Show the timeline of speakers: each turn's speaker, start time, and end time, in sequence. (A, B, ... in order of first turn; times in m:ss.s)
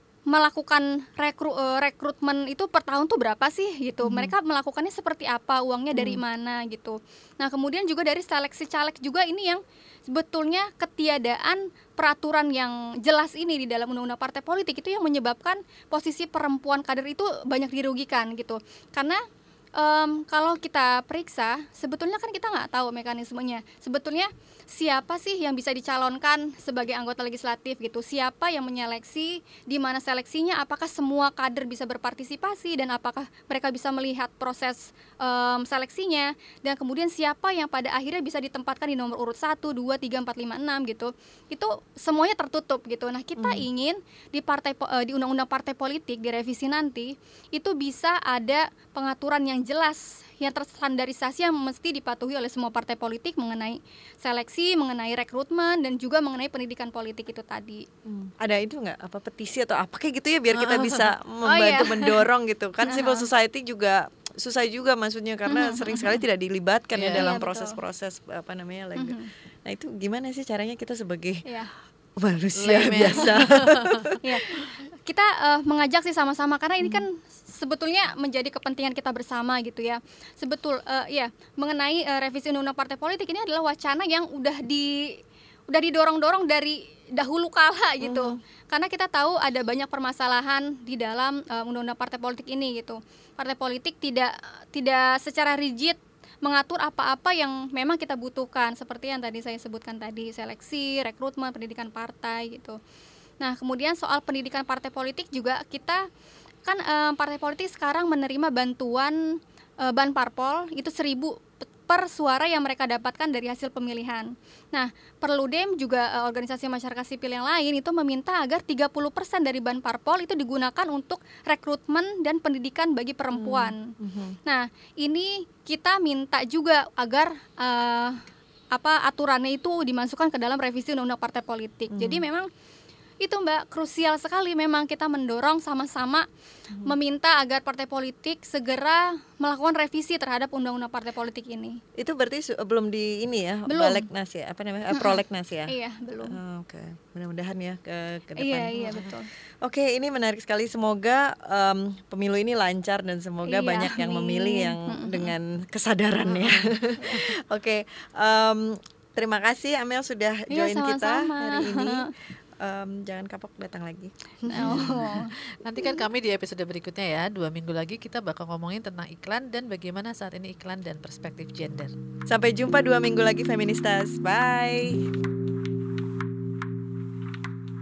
0:00.3-0:19.2 A
0:04.0-0:04.3 B
0:05.9-0:06.2 B
0:19.8-0:57.8 A
0:43.4-0:43.7 B
0:58.1-1:11.5 B
1:00.5-1:01.1 C
1:01.5-1:02.2 A
1:02.8-1:03.3 A
1:05.5-1:06.2 A
1:07.0-1:07.3 C
1:07.2-1:07.8 A
1:09.0-1:09.3 A
1:12.2-1:14.6 B
1:12.6-1:14.2 C
1:14.2-1:25.2 A
1:25.7-1:42.8 A
1:28.0-1:28.4 B
1:43.4-1:46.0 A
1:46.6-2:03.9 A
2:03.4-2:04.4 B
2:04.4-2:08.2 A
2:08.7-2:12.5 A
2:11.9-2:12.2 B
2:13.2-2:16.3 A
2:16.8-2:21.8 A
2:22.0-2:25.8 B
2:23.7-2:24.0 A
2:24.9-2:26.4 A
2:26.3-2:45.1 B
2:28.4-2:29.3 A
2:33.5-2:35.3 A
2:37.0-2:37.3 A
2:40.5-2:42.1 A
2:44.5-2:51.9 C
2:44.5-2:45.3 A
2:52.3-2:55.1 B